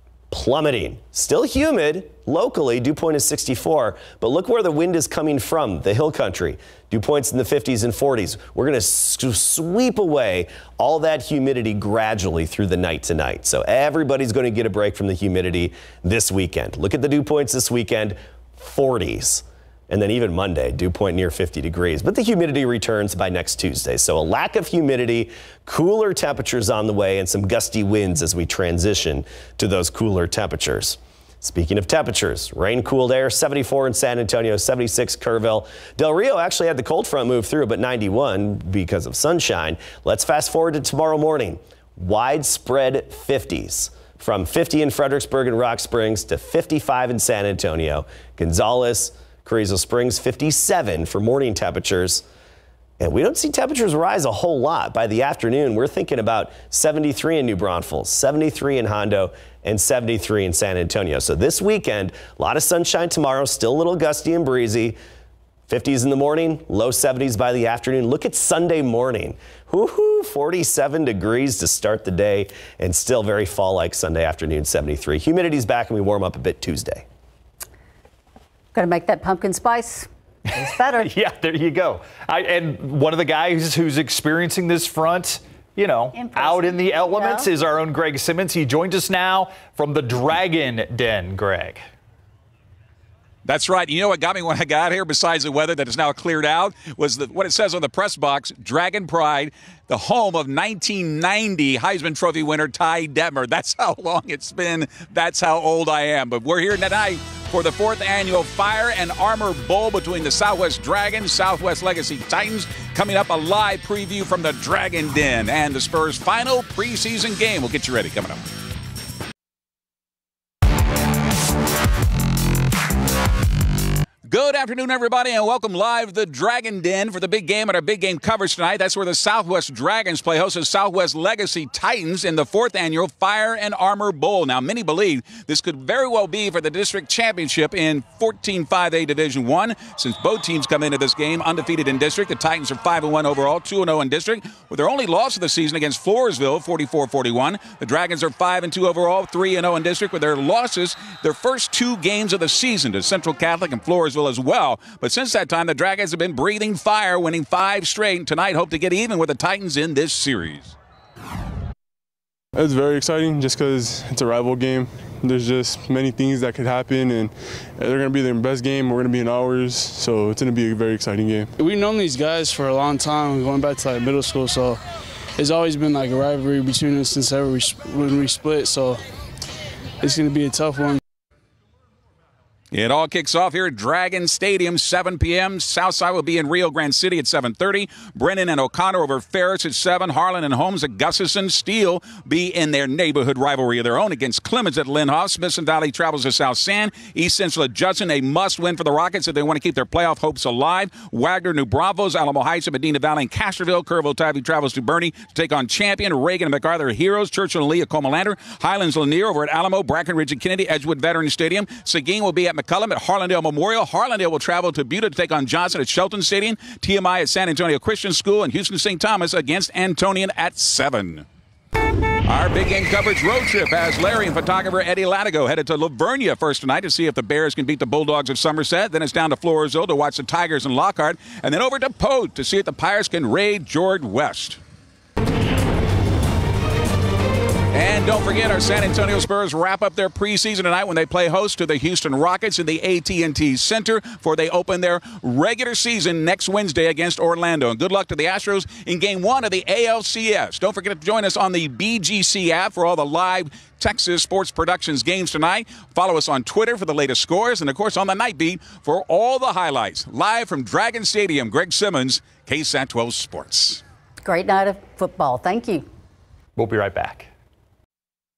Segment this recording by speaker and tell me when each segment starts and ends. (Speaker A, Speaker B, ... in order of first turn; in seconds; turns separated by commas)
Speaker A: 0.3-52.2, Speaker A: 53.0-65.0, Speaker A: 65.7-77.0, Speaker B: 78.7-81.1, Speaker C: 81.0-91.8, Speaker B: 86.2-87.4, Speaker D: 93.4-118.4, Speaker D: 124.3-160.7, Speaker E: 162.5-171.5, Speaker F: 171.6-174.8, Speaker F: 175.4-179.0, Speaker F: 180.0-181.0, Speaker D: 182.7-221.2, Speaker D: 222.2-234.6, Speaker D: 237.7-263.8, Speaker B: 264.2-265.9, Speaker C: 266.6-267.3